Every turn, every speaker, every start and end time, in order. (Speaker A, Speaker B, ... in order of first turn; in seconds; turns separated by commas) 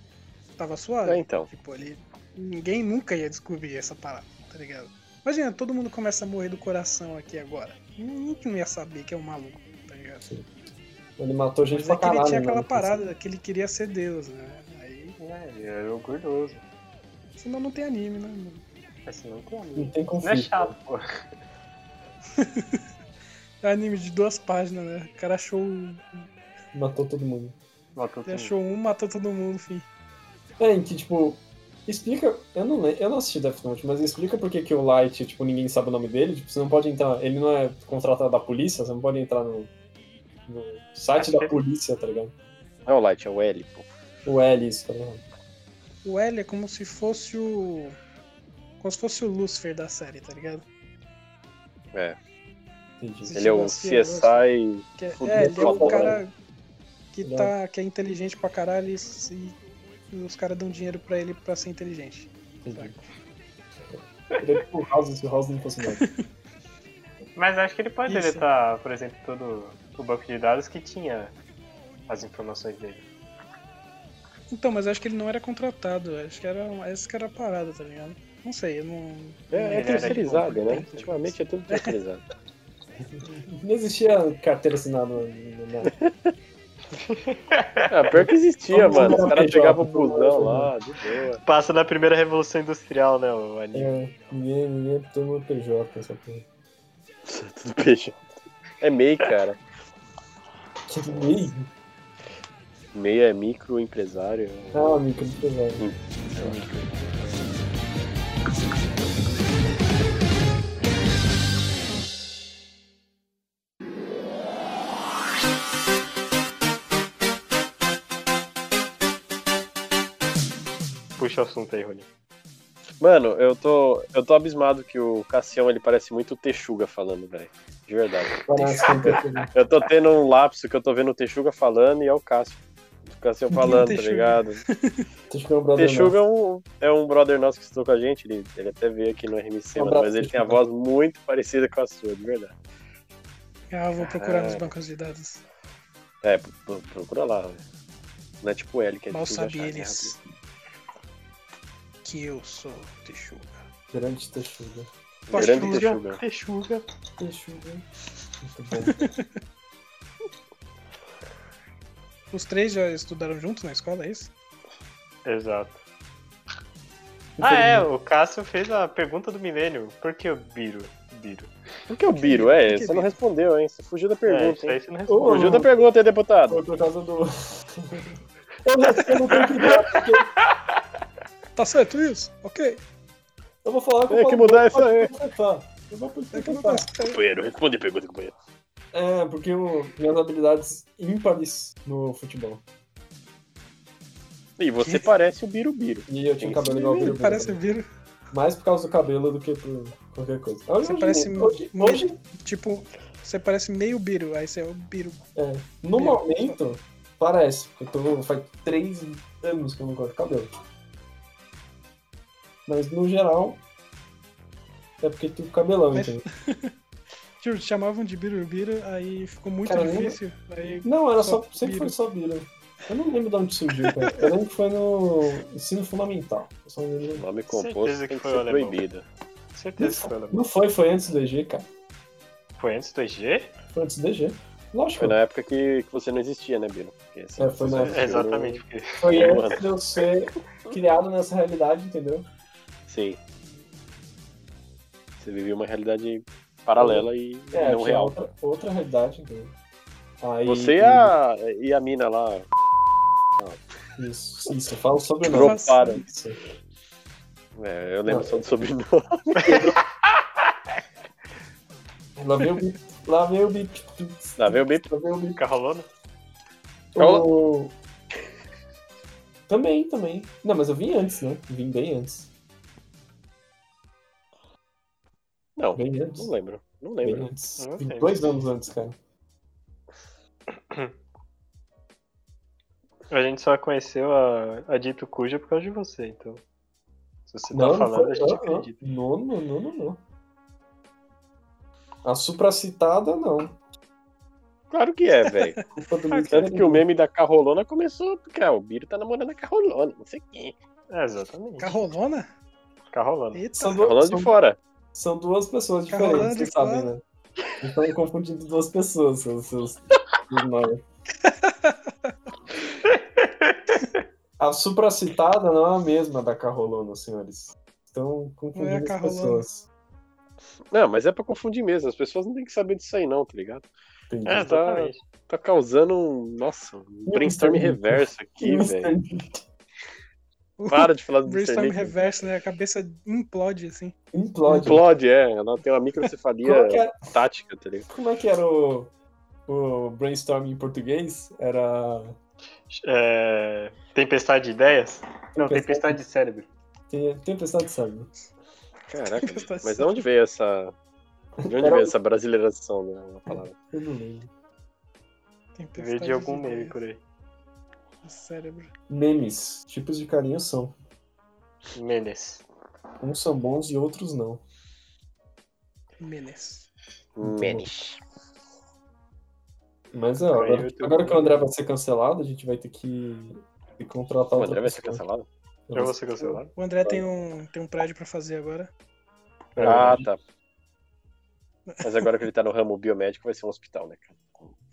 Speaker A: 0.6-10.2, Speaker B: 1.1-1.5, Speaker C: 11.2-13.0, Speaker A: 11.7-15.2, Speaker D: 15.2-16.6, Speaker A: 17.4-18.6, Speaker D: 19.1-21.0, Speaker C: 19.7-20.7, Speaker A: 22.4-22.8, Speaker A: 23.6-26.2, Speaker C: 26.7-27.6, Speaker D: 27.9-28.5, Speaker A: 28.2-29.9, Speaker C: 30.6-39.7, Speaker C: 40.5-42.3, Speaker D: 41.1-41.6, Speaker B: 42.9-43.9, Speaker C: 44.2-45.2, Speaker A: 46.0-48.0, Speaker A: 48.8-50.6, Speaker C: 53.0-53.4, Speaker A: 53.2-54.4, Speaker B: 53.3-56.2, Speaker A: 55.0-56.3, Speaker C: 55.3-56.2, Speaker A: 57.1-59.6, Speaker C: 57.2-57.5, Speaker A: 60.1-62.9, Speaker C: 62.6-63.0, Speaker C: 63.9-66.0, Speaker D: 67.3-71.3, Speaker A: 68.1-68.4, Speaker D: 72.1-73.0, Speaker A: 74.5-81.9, Speaker B: 79.5-82.2, Speaker D: 79.7-80.8, Speaker C: 80.3-81.3, Speaker C: 83.0-85.9, Speaker B: 86.0-86.3, Speaker D: 87.1-88.1, Speaker B: 87.9-91.4, Speaker C: 88.1-90.7, Speaker D: 91.4-94.0, Speaker C: 93.7-96.4, Speaker B: 97.2-98.2, Speaker B: 98.8-99.6, Speaker C: 100.9-101.7, Speaker B: 102.9-105.0, Speaker C: 104.7-105.9, Speaker B: 105.8-107.5, Speaker D: 121.2-122.1, Speaker B: 123.0-128.9, Speaker C: 128.4-129.5, Speaker A: 128.5-129.2, Speaker B: 129.5-134.6, Speaker A: 133.5-135.1, Speaker C: 135.3-136.2, Speaker B: 135.8-142.5, Speaker C: 139.7-140.6, Speaker A: 143.7-145.4, Speaker B: 144.0-144.7, Speaker B: 146.2-147.6, Speaker B: 148.4-150.1, Speaker A: 149.1-150.2, Speaker A: 152.0-153.5, Speaker C: 153.9-154.9, Speaker B: 155.3-156.2, Speaker D: 155.3-156.8, Speaker A: 155.3-155.8, Speaker C: 157.2-157.8, Speaker C: 158.4-159.1, Speaker A: 158.8-159.3, Speaker A: 162.3-164.3, Speaker D: 165.2-165.8, Speaker C: 167.4-167.9, Speaker D: 167.4-171.5, Speaker B: 171.9-176.6, Speaker A: 172.1-173.1, Speaker D: 174.2-175.6, Speaker C: 175.1-175.8, Speaker C: 176.5-180.3, Speaker A: 181.6-182.8, Speaker C: 183.6-186.9, Speaker B: 184.1-185.1, Speaker A: 186.3-187.2, Speaker B: 187.1-188.3, Speaker C: 188.9-192.6, Speaker B: 194.6-196.7, Speaker A: 194.8-195.1, Speaker C: 196.1-197.6, Speaker A: 196.6-197.8, Speaker C: 198.3-202.2, Speaker A: 200.8-205.2, Speaker C: 205.3-210.5, Speaker A: 205.9-206.6, Speaker C: 212.7-213.6, Speaker C: 215.0-216.2, Speaker A: 215.9-216.7, Speaker A: 217.4-221.9, Speaker C: 219.6-220.2, Speaker C: 220.8-227.2, Speaker A: 223.8-224.3, Speaker B: 227.2-229.1, Speaker D: 227.5-228.8, Speaker D: 229.5-230.4, Speaker C: 229.8-231.7, Speaker D: 232.6-233.5, Speaker C: 233.7-235.2, Speaker B: 235.0-239.7, Speaker C: 237.4-238.2, Speaker D: 237.8-239.3, Speaker C: 239.0-242.2, Speaker B: 242.9-243.2, Speaker B: 245.2-248.2, Speaker C: 246.8-249.5, Speaker C: 250.2-251.2, Speaker B: 250.4-252.5, Speaker C: 254.0-256.4, Speaker B: 255.2-256.0, Speaker A: 255.3-256.1, Speaker B: 257.6-259.8, Speaker C: 258.1-258.4, Speaker C: 262.1-265.4, Speaker B: 264.4-264.9, Speaker D: 265.4-265.9, Speaker C: 266.9-267.7, Speaker B: 267.0-267.3, Speaker C: 269.5-272.3, Speaker B: 275.6-277.3, Speaker C: 275.7-276.3, Speaker C: 277.0-278.9, Speaker D: 277.6-278.3, Speaker D: 280.5-280.9, Speaker D: 283.1-286.4, Speaker D: 287.3-288.8, Speaker C: 287.5-290.0, Speaker C: 292.0-293.6, Speaker B: 294.7-295.6, Speaker A: 295.3-295.6, Speaker C: 295.8-296.9, Speaker B: 296.3-300.5, Speaker D: 300.9-301.7, Speaker A: 301.6-302.3, Speaker D: 302.9-303.4, Speaker A: 303.3-303.8, Speaker C: 303.5-304.3, Speaker B: 303.8-304.6, Speaker C: 304.9-307.0, Speaker A: 305.9-306.9, Speaker C: 307.6-310.8, Speaker A: 311.2-312.1, Speaker D: 312.9-313.5, Speaker C: 314.4-319.7, Speaker A: 318.5-319.4, Speaker B: 320.7-323.7, Speaker C: 324.1-324.5, Speaker B: 324.2-328.9, Speaker D: 324.2-325.0, Speaker C: 327.1-329.4, Speaker A: 330.6-333.9, Speaker B: 330.7-331.9, Speaker C: 334.1-334.8, Speaker B: 334.5-337.9, Speaker C: 336.4-337.0, Speaker C: 337.9-338.9, Speaker C: 339.5-342.2, Speaker D: 342.7-346.5, Speaker C: 345.3-346.0, Speaker C: 346.9-348.1, Speaker B: 348.9-350.7, Speaker A: 349.1-350.1, Speaker C: 351.4-351.9, Speaker B: 351.4-353.5, Speaker C: 353.3-354.3, Speaker A: 355.5-356.7, Speaker D: 355.8-357.0, Speaker A: 358.0-358.7, Speaker C: 358.9-360.7, Speaker D: 361.7-362.4, Speaker C: 363.0-364.4, Speaker A: 366.0-366.7, Speaker B: 367.2-368.0, Speaker C: 367.2-367.7, Speaker C: 369.9-375.0, Speaker D: 370.3-371.4, Speaker B: 374.3-375.2, Speaker C: 375.7-376.4, Speaker D: 375.7-376.5, Speaker A: 376.5-378.7, Speaker C: 379.6-380.1, Speaker D: 379.6-379.9, Speaker B: 379.6-380.2, Speaker A: 381.7-382.0, Speaker B: 381.8-384.2